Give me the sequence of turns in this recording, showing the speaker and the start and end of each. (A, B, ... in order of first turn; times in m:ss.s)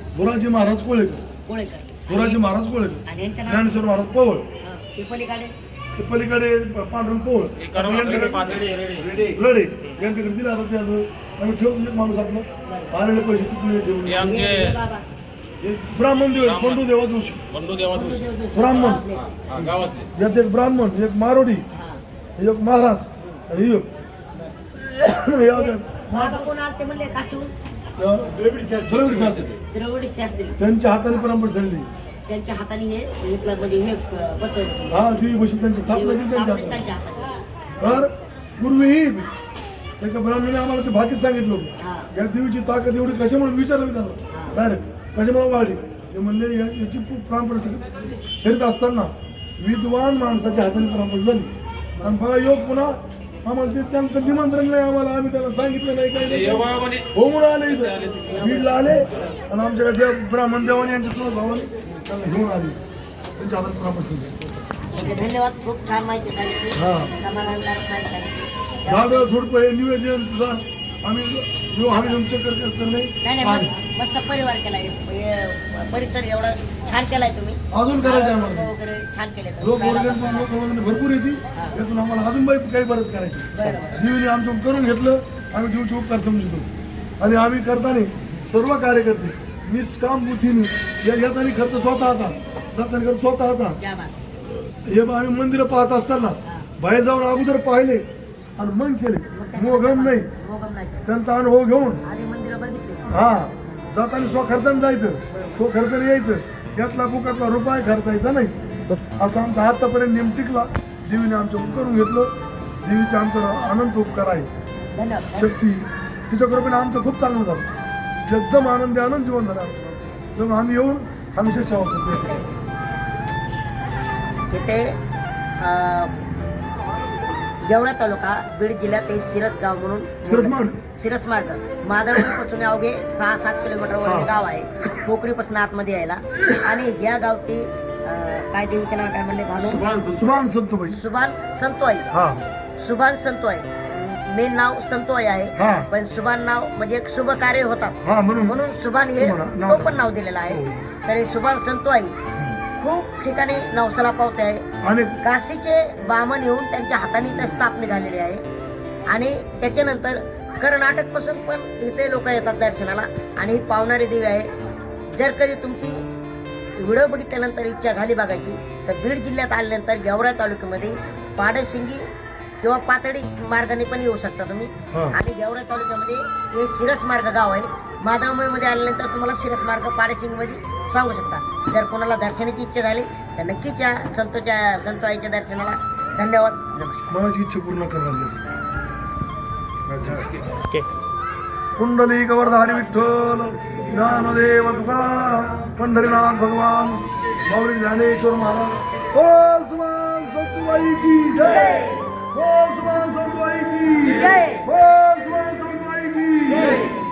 0:00.2-0:01.2 A
0:01.4-0:02.4 B
0:02.1-0:04.4 A
0:03.0-0:03.9 B
0:04.6-0:05.5 B
0:06.0-0:08.6 A
0:07.6-0:09.3 C
0:09.3-0:14.3 A
0:12.6-0:13.0 B
0:14.1-0:14.8 C
0:14.2-0:15.0 B
0:15.6-0:17.4 A
0:16.5-0:16.8 C
0:17.5-0:18.2 C
0:17.9-0:19.3 B
0:18.5-0:19.0 A
0:19.5-0:20.1 C
0:20.2-0:21.6 A
0:21.7-0:22.0 B
0:22.4-0:23.9 A
0:25.0-0:26.5 A
0:25.5-0:27.5 B
0:28.0-0:29.5 A
0:29.7-0:30.6 B
0:30.6-0:31.9 A
0:32.3-0:35.1 B
0:34.9-0:36.8 A
0:35.9-0:38.0 B
0:37.8-0:39.3 A
0:40.0-0:47.8 A
0:41.8-0:42.1 B
0:44.3-0:44.6 B
0:48.4-1:02.8 A
0:56.4-0:57.1 C
0:58.3-0:59.3 B
1:03.4-1:04.4 A
1:04.8-1:09.3 B
1:06.8-1:07.1 A
1:08.9-1:13.7 A
1:11.8-1:12.2 B
1:13.2-1:20.5 B
1:17.7-1:18.7 A
1:19.6-1:26.7 A
1:23.5-1:24.0 B
1:27.2-1:33.8 A
1:33.8-1:34.2 B
1:34.7-1:38.0 A
1:36.4-1:36.7 B
1:38.6-1:40.3 A
1:39.3-1:41.1 B
1:41.1-1:42.0 A
1:42.0-1:43.9 B
1:43.1-1:48.5 A
1:49.1-1:52.3 A
1:52.8-1:54.5 A
1:54.9-1:55.6 B
1:55.4-1:57.7 A
1:58.3-2:02.4 A
2:04.5-2:05.0 B
2:05.6-2:06.1 B
2:07.6-2:20.0 B
2:10.2-2:10.8 A
2:14.0-2:14.3 A
2:19.7-2:21.0 A
2:20.9-2:22.1 B
2:22.1-2:22.4 A
2:22.8-2:32.2 B
2:25.6-2:25.9 A
2:28.0-2:28.6 A
2:29.2-2:30.9 A
2:32.8-2:34.6 B
2:34.8-2:35.2 A
2:35.2-2:38.4 B
2:39.1-2:44.5 B
2:45.2-2:46.0 B
2:46.8-2:52.0 B
2:52.6-3:07.2 B
2:54.9-2:55.2 A
3:07.1-3:08.4 A
3:09.9-3:10.3 A
3:11.8-3:26.8 A
3:21.4-3:22.0 B
3:24.1-3:24.6 B